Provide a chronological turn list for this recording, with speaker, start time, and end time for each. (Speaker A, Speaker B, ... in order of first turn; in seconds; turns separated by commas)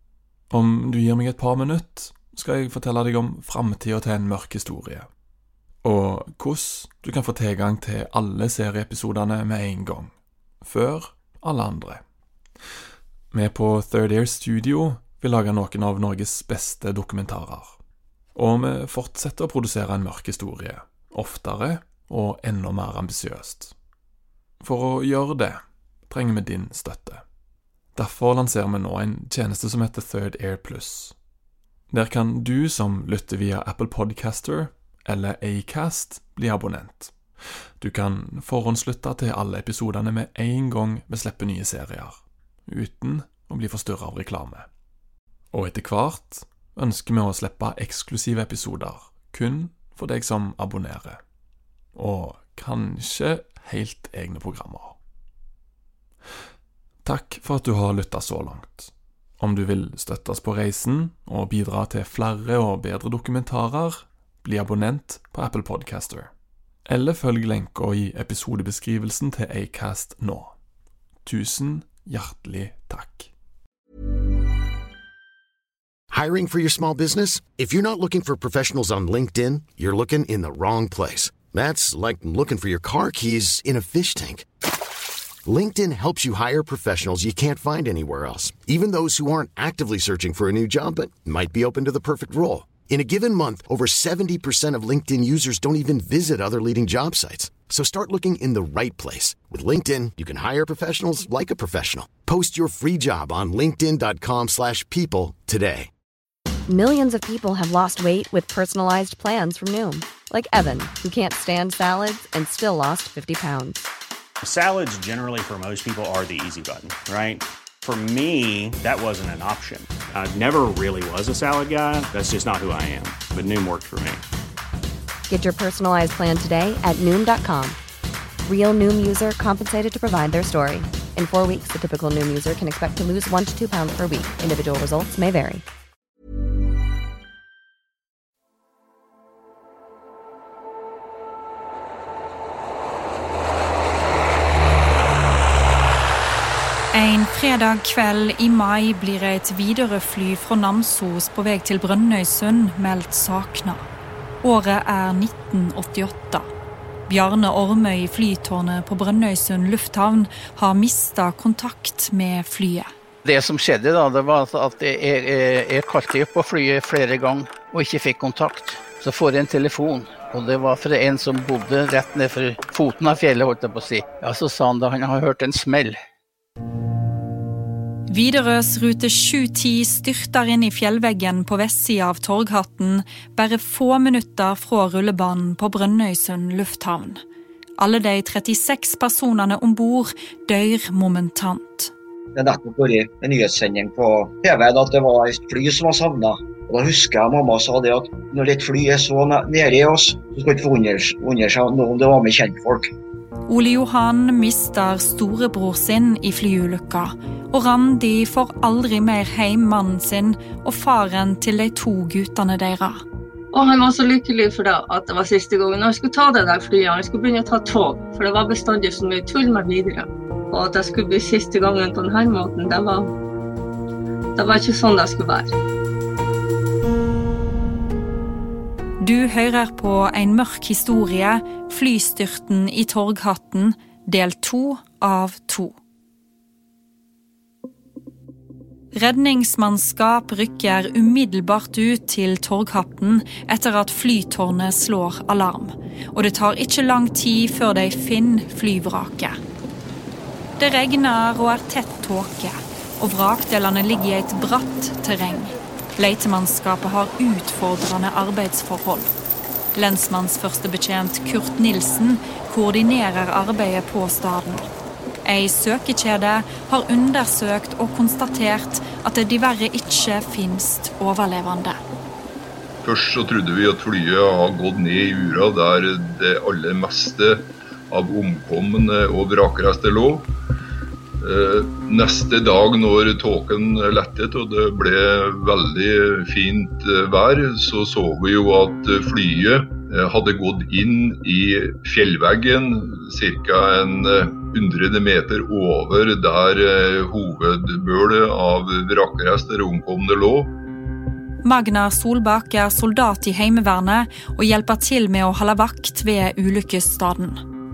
Speaker A: 0.5-5.1, Speaker A: 5.8-12.0, Speaker A: 13.3-17.8, Speaker A: 18.4-23.7, Speaker A: 24.6-27.2, Speaker A: 27.9-31.1, Speaker A: 31.9-37.2, Speaker A: 37.8-44.7, Speaker A: 45.5-51.2, Speaker A: 51.9-55.0, Speaker A: 57.0-66.3, Speaker A: 66.9-70.5, Speaker A: 71.2-73.3, Speaker B: 76.1-84.5, Speaker B: 85.5-105.9, Speaker C: 106.7-113.8, Speaker D: 114.4-124.2, Speaker C: 125.3-127.8, Speaker C: 128.5-135.7, Speaker E: 146.9-153.8, Speaker E: 154.4-156.5, Speaker E: 157.1-162.9, Speaker F: 163.2-176.0, Speaker E: 178.1-187.2, Speaker E: 187.8-191.9, Speaker G: 192.3-202.9, Speaker E: 203.5-213.0, Speaker H: 213.5-223.1, Speaker H: 224.4-225.6, Speaker E: 229.0-235.8, Speaker E: 238.9-249.4, Speaker E: 250.6-259.1, Speaker E: 259.8-264.7, Speaker E: 265.2-271.8, Speaker I: 272.8-280.3, Speaker I: 281.2-300.6, Speaker E: 301.4-307.4